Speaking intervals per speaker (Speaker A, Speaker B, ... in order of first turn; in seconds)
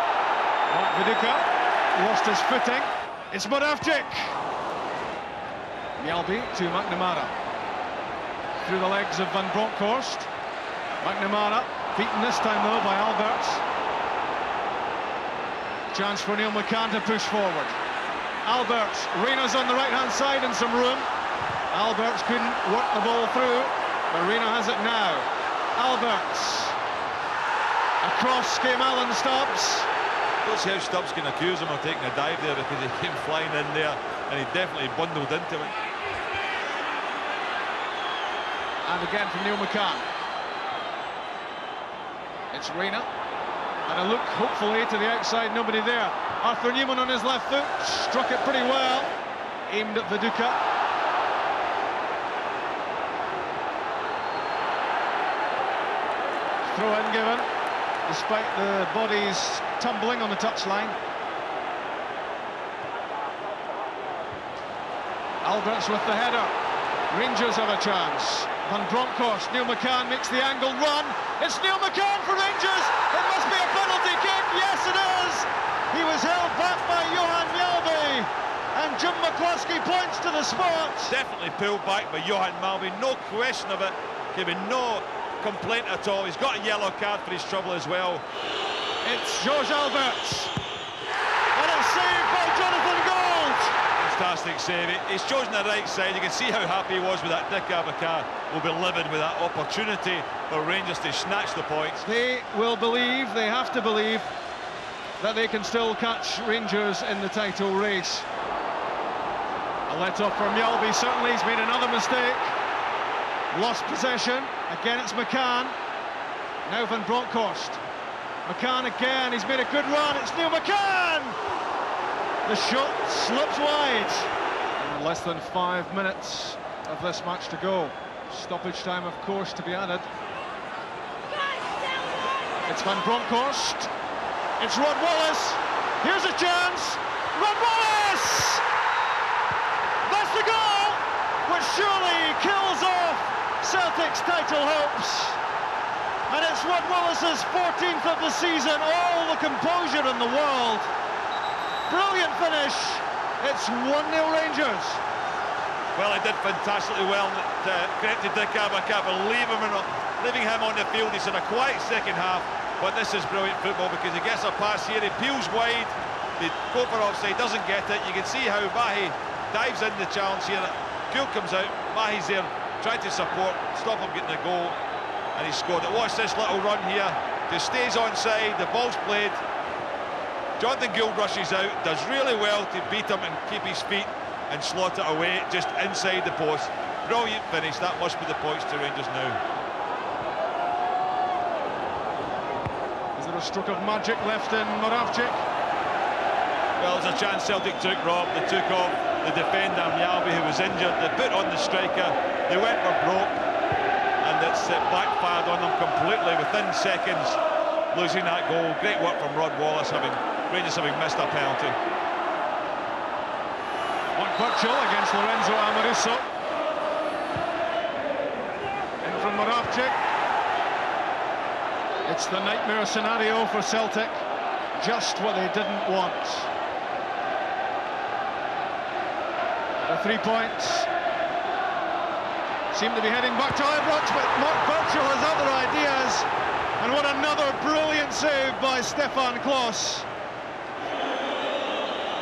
Speaker A: 0.7-4.4, 6.0-7.3, 8.5-10.3, 11.0-13.6, 15.9-17.8, 18.4-21.1, 21.7-26.8, 28.0-29.9, 38.9-40.1, 42.5-43.1, 43.9-49.1, 49.7-50.6, 56.6-57.5, 58.1-61.0, 65.4-66.5, 67.1-81.2, 89.0-90.5, 91.5-93.8, 102.0-104.3, 105.2-108.3, 109.9-112.6, 113.5-115.8, 116.7-117.8, 118.5-121.4, 122.5-130.1, 132.7-133.9, 134.6-138.6, 140.1-145.4, 146.3-150.9, 151.9-155.0, 193.2-195.4, 214.2-216.3, 219.0-220.0, 222.1-226.5, 229.8-230.9, 232.7-236.3, 236.8-240.1
Speaker B: 30.4-35.8, 81.1-88.2, 94.0-102.0, 155.9-174.8, 175.3-179.4, 180.6-189.4, 196.8-203.4, 204.2-207.4, 207.9-211.8